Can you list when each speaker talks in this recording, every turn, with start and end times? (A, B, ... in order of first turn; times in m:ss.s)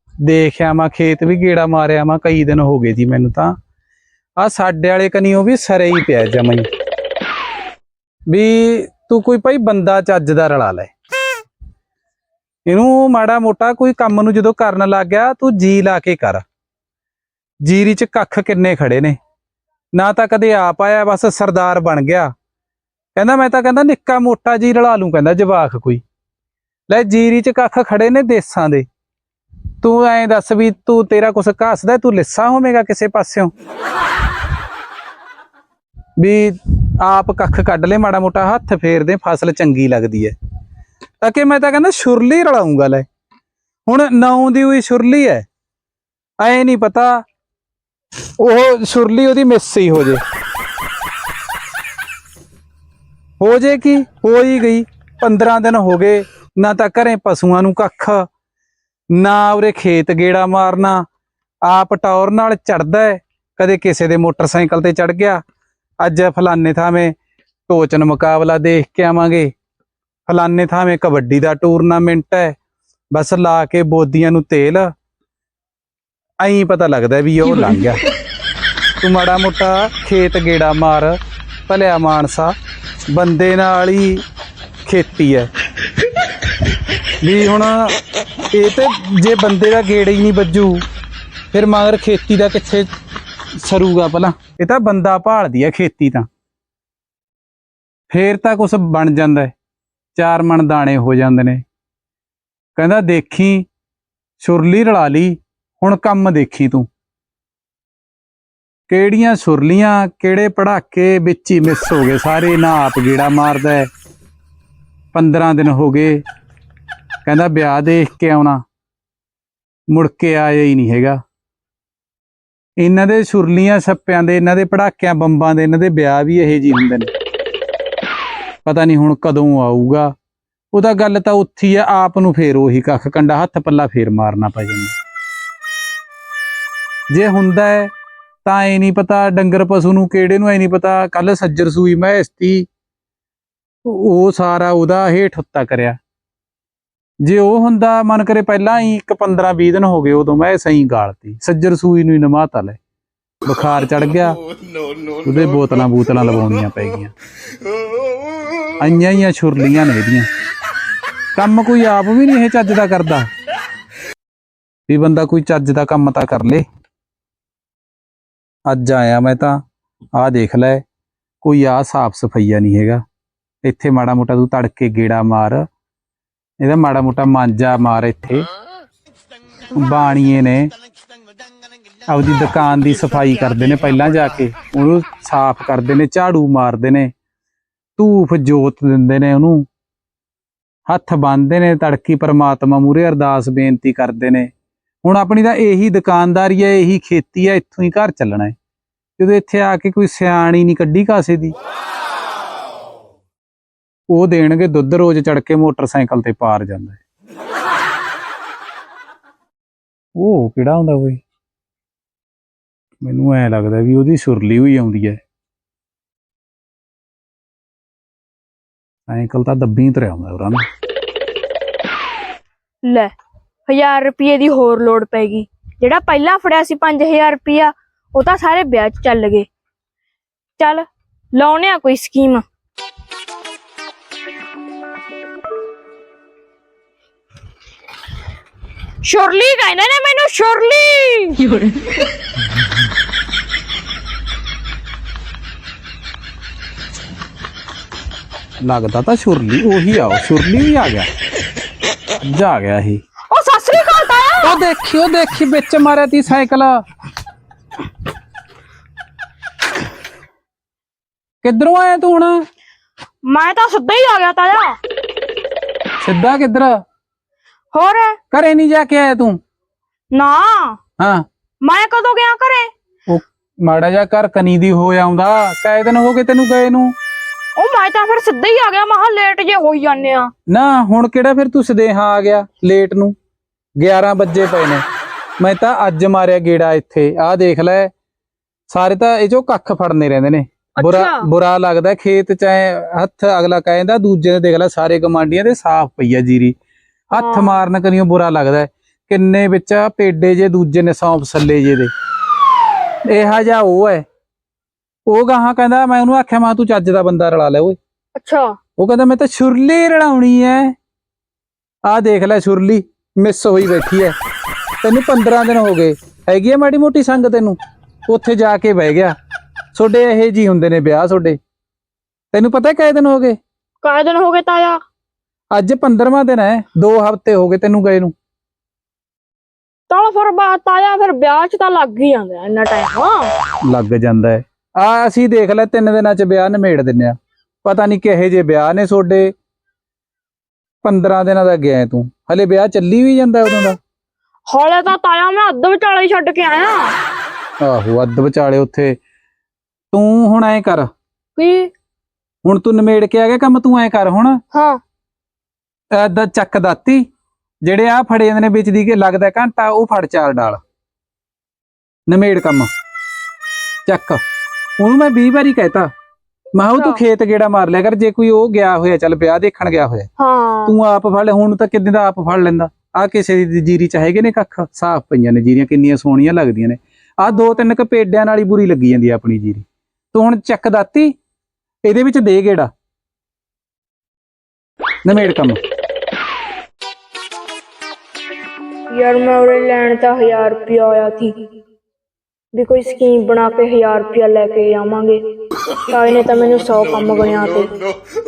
0:00.2-0:03.5 A
0:04.4-0:06.7 A
0:08.3-0:10.9 A
0:12.7-0:16.4 A
0:17.6-0:19.2 A
0:19.9-0:22.3 A
0:23.2-0:26.0 A
0:26.9-0:28.9 A
0:29.8-0:33.5 A
0:36.2-0:40.3 A
0:41.2-0:43.1 A
0:43.9-0:45.5 A
0:46.4-0:47.2 A
0:48.4-0:50.2 A
0:53.4-0:58.2 A
0:59.1-1:01.0 A
1:01.6-1:05.4 A
1:06.0-1:07.1 A
1:07.7-1:09.5 A
1:10.3-1:12.6 A
1:13.1-1:14.9 A
1:16.4-1:18.0 A
1:19.0-1:21.2 A
1:21.7-1:22.5 A
1:23.1-1:24.2 A
1:24.8-1:25.5 A
1:27.2-1:28.0 A
1:28.5-1:30.8 A
1:31.5-1:32.9 A
1:33.6-1:36.3 A
1:38.1-1:39.5 A
1:40.2-1:41.6 A
1:42.8-1:43.7 A
1:44.4-1:46.9 A
1:48.9-1:53.9 A
1:55.1-1:56.2 A
1:57.2-1:58.6 A
1:59.9-2:01.2 A
2:02.8-2:07.1 A
2:08.6-2:10.1 A
2:10.7-2:15.0 A
2:17.1-2:17.9 A
2:18.4-2:22.7 A
2:23.8-2:26.0 A
2:27.2-2:32.8 A
2:33.4-2:34.4 A
2:35.2-2:37.1 A
2:38.8-2:40.3 A
2:41.4-2:43.3 A
2:44.9-2:46.6 A
2:48.7-2:49.6 A
2:50.2-2:50.8 A
2:51.4-2:53.0 A
2:53.6-2:55.6 A
2:56.6-2:58.4 A
2:59.8-3:00.7 A
3:02.1-3:07.1 A
3:08.0-3:09.6 A
3:10.9-3:14.5 A
3:15.0-3:18.6 A
3:19.2-3:21.6 A
3:24.1-3:27.0 A
3:30.2-3:31.2 A
3:33.0-3:35.2 A
3:39.1-3:40.6 A
3:42.8-3:43.1 B
3:43.7-3:49.5 B
3:50.6-3:52.4 B
3:59.0-4:01.7 B
4:08.6-4:11.1 A
4:12.2-4:13.0 A
4:13.3-4:14.6 B
4:14.4-4:16.8 A
4:21.4-4:22.4 A
4:23.2-4:24.8 B
4:26.0-4:26.8 A
4:27.7-4:28.2 B
4:28.3-4:29.4 A
4:30.1-4:30.8 B
4:31.0-4:31.2 A
4:31.6-4:32.7 B
4:33.1-4:36.9 A
4:37.6-4:40.3 B
4:40.5-4:43.2 A
4:43.8-4:44.8 A
4:45.4-4:47.9 A
4:48.7-4:56.6 A
4:50.8-4:51.3 B
4:57.1-5:01.9 A
4:57.2-4:57.7 B
5:03.1-5:04.0 A
5:05.1-5:07.8 A
5:08.2-5:08.5 B
5:08.8-5:10.7 A
5:11.9-5:14.2 A
5:14.8-5:19.1 A
5:19.7-5:21.4 A
5:22.3-5:23.4 A
5:23.8-5:24.8 B
5:25.5-5:28.1 A
5:29.9-5:33.3 B
5:33.7-5:39.3 A
5:40.8-5:43.8 A
5:44.5-5:47.0 B
5:47.6-5:49.0 A
5:49.9-5:50.9 A
5:51.4-5:51.7 B
5:52.4-5:54.4 A
5:54.5-5:54.8 B
5:55.9-5:57.0 A
5:57.6-6:00.6 A
6:02.1-6:02.7 A
6:03.9-6:04.2 A
6:04.8-6:05.9 A
6:06.5-6:10.1 A
6:06.6-6:07.0 B
6:10.2-6:10.8 B
6:10.7-6:21.1 A
6:21.8-6:22.7 A
6:25.0-6:25.6 A
6:28.9-6:31.3 B
6:32.5-6:35.2 B
6:35.8-6:37.8 B